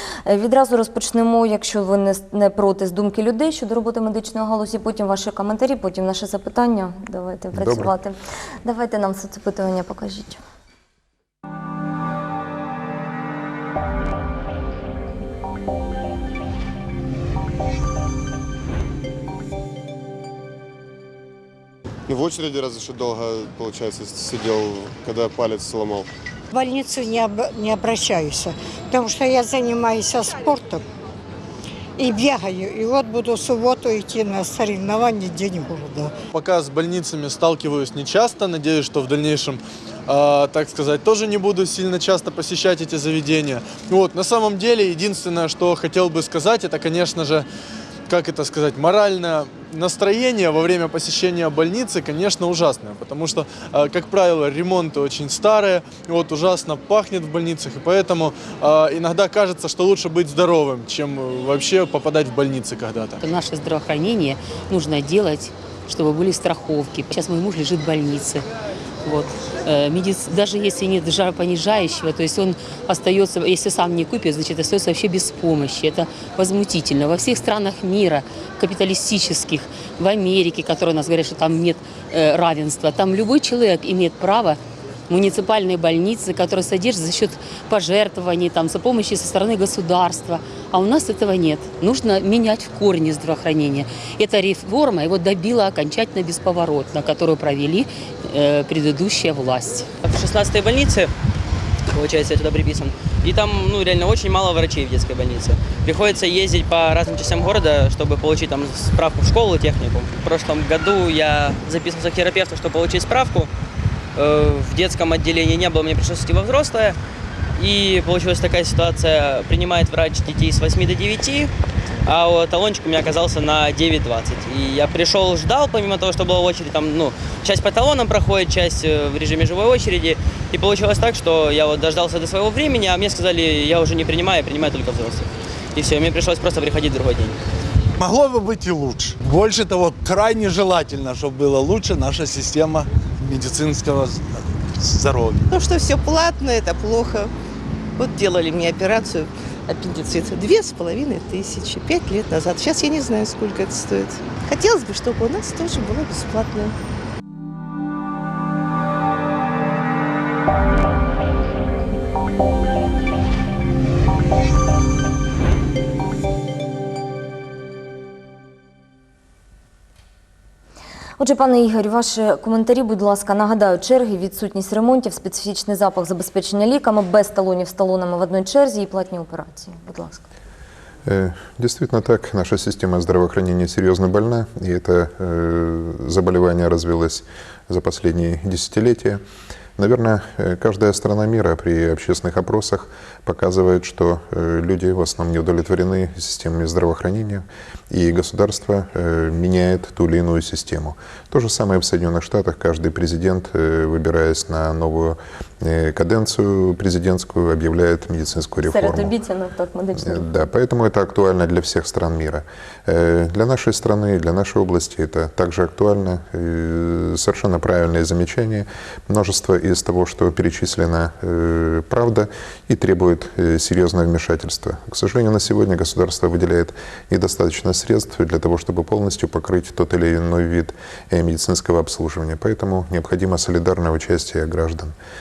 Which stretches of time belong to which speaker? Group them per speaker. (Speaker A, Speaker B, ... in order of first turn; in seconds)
Speaker A: 0.2-10.4, 171.2-180.2, 208.6-210.5
Speaker B: 7.5-7.9, 181.0-189.2, 189.8-209.1, 209.9-234.9
Speaker C: 22.1-26.1
Speaker D: 26.5-30.8, 32.0-36.1
Speaker E: 36.3-47.4, 48.1-63.2
Speaker F: 63.2-68.4, 69.0-99.9
Speaker G: 100.0-101.1, 101.9-113.5, 114.2-117.0, 117.6-121.5, 122.0-137.4
Speaker H: 138.0-145.4
Speaker I: 145.5-147.3, 148.0-156.7